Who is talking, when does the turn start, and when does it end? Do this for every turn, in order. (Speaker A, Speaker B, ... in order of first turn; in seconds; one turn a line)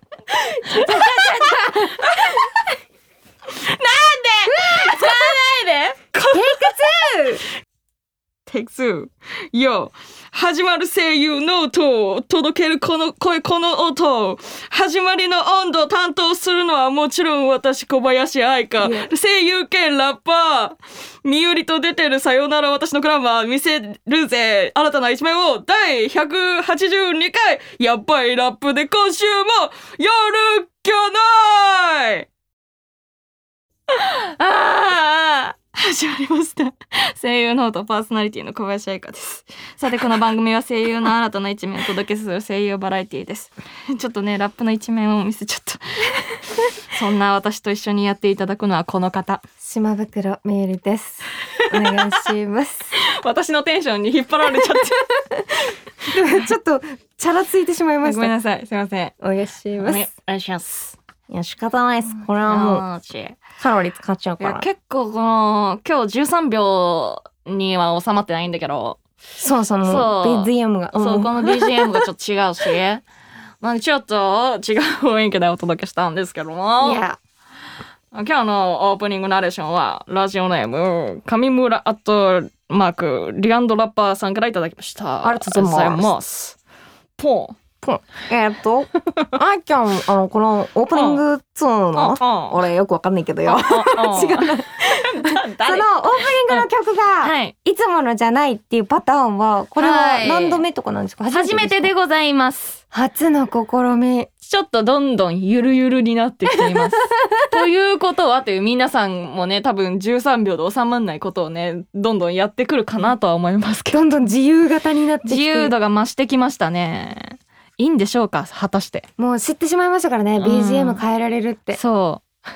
Speaker A: 0.4-2.5
Speaker B: 0.6-2.3
Speaker A: 3.5-6.8
Speaker B: 4.6-5.3
Speaker B: 6.3-7.4
Speaker A: 8.5-32.3
Speaker B: 18.8-19.1
Speaker A: 33.9-49.4
Speaker B: 49.6-52.9
Speaker A: 51.5-52.1
Speaker A: 53.0-56.4
Speaker B: 56.1-58.3
Speaker A: 58.0-59.1
Speaker B: 59.2-60.1
Speaker A: 59.8-61.0
Speaker B: 61.3-62.8
Speaker A: 62.3-63.4
Speaker B: 63.6-64.7
Speaker A: 64.4-69.0
Speaker B: 69.4-71.9
Speaker A: 69.8-73.0
Speaker A: 73.6-77.0
Speaker B: 76.8-77.2
Speaker A: 78.1-86.6
Speaker B: 85.2-86.1
Speaker A: 87.2-87.6
Speaker B: 87.8-101.9
Speaker A: 90.9-91.2
Speaker A: 91.9-92.6
Speaker A: 93.4-96.7
Speaker A: 97.2-97.5
Speaker A: 99.8-100.6
Speaker A: 101.3-102.8
Speaker B: 102.9-104.3
Speaker A: 104.4-114.1
Speaker B: 106.6-107.6
Speaker B: 113.9-115.7
Speaker A: 115.2-119.1
Speaker B: 119.2-121.8
Speaker A: 120.4-121.0
Speaker A: 121.7-122.2